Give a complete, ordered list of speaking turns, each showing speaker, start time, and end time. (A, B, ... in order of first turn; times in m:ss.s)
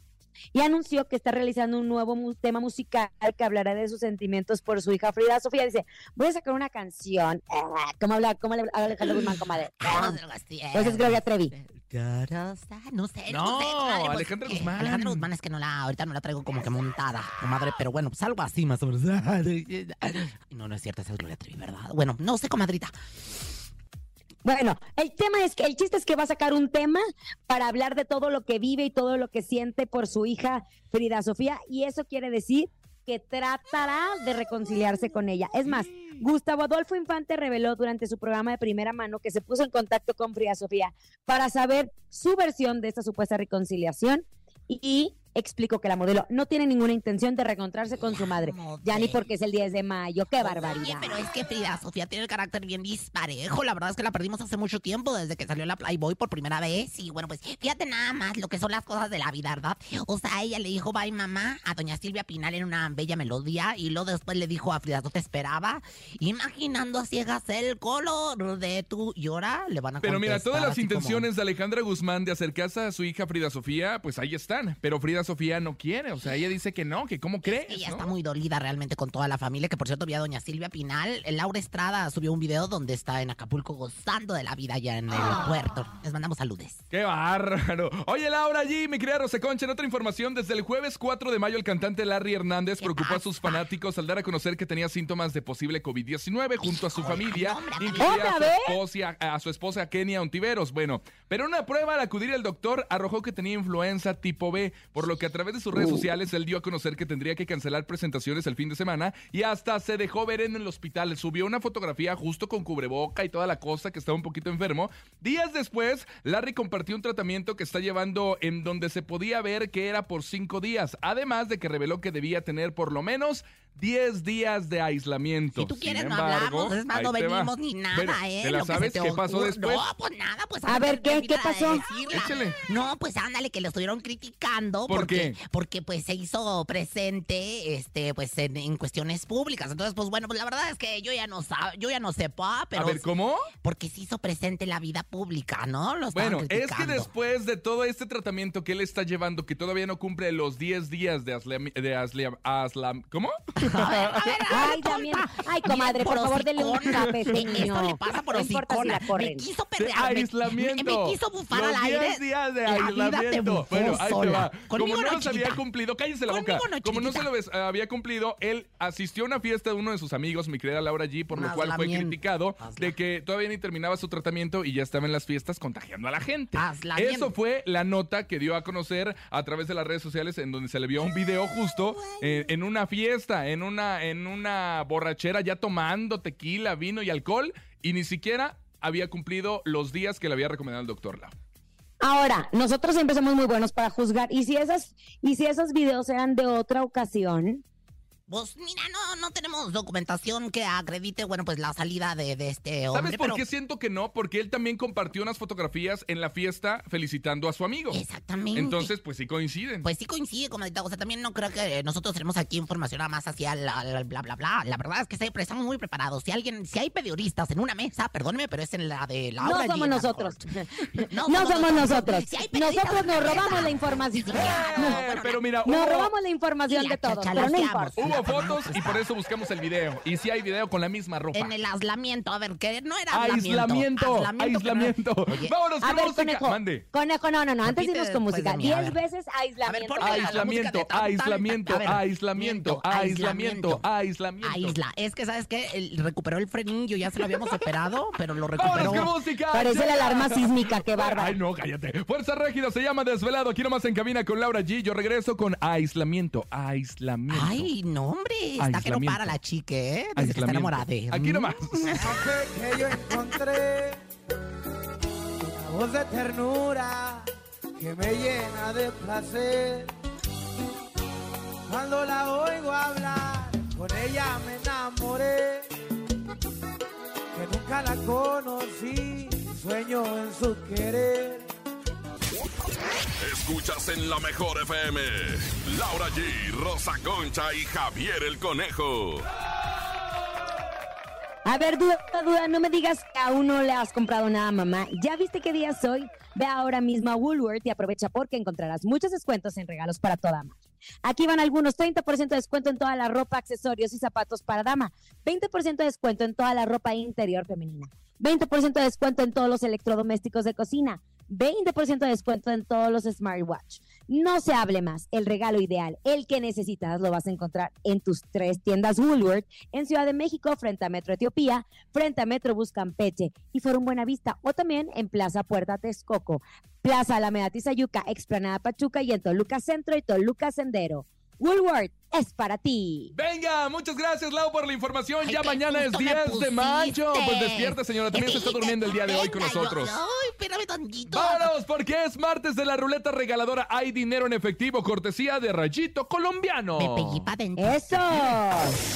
0:00.5-0:10.2 A
0:09.8-0:22.9 B
0:10.7-0:11.5 A
0:13.3-0:15.3 C
0:24.4-0:51.2 A
0:47.9-0:49.3 B
0:50.4-1:11.3 B
1:10.0-1:18.1 C
1:17.4-1:26.8 B
1:26.9-2:09.8 C
1:32.8-1:33.7 B
1:36.6-1:38.4 B
1:38.0-1:38.8 A
2:05.6-2:23.0 B
2:10.7-2:11.8 A
2:12.1-2:12.6 C
2:14.9-2:15.4 C
2:22.8-2:23.5 C
2:23.6-2:27.1 B
2:26.1-2:34.3 C
2:33.6-2:45.6 B
2:34.5-2:39.5 A
2:39.8-3:11.3 C
2:46.3-2:47.3 B
2:51.3-2:53.0 B
2:56.6-2:57.4 B
3:02.0-3:02.5 B
3:12.0-3:17.6 A
3:18.3-3:23.4 B
3:22.9-3:28.0 C
3:27.9-3:28.9 B
3:28.6-3:29.9 C
3:29.8-3:45.4 B
3:39.4-3:45.0 A
3:44.4-3:46.1 C
3:45.6-3:48.0 A
3:46.7-3:49.1 B
3:48.0-3:51.5 C
3:51.3-3:55.5 B
3:53.1-3:56.8 C
3:55.8-4:00.5 A
3:57.6-3:59.0 B
3:59.6-4:03.8 B
4:00.0-4:04.8 C
4:04.4-4:09.1 B
4:08.6-4:17.7 C
4:09.5-4:11.4 A
4:17.3-4:22.2 B
4:18.6-4:19.4 C
4:20.2-4:22.0 C
4:22.0-4:24.0 D
4:25.4-4:29.9 D
4:31.7-4:35.7 D
4:37.3-4:41.5 D
4:43.2-4:49.3 E
4:51.4-5:33.1 A
5:33.1-5:40.0 C
5:35.2-5:41.5 B
5:41.1-5:47.3 C
5:46.8-5:48.2 B
5:47.6-5:48.8 A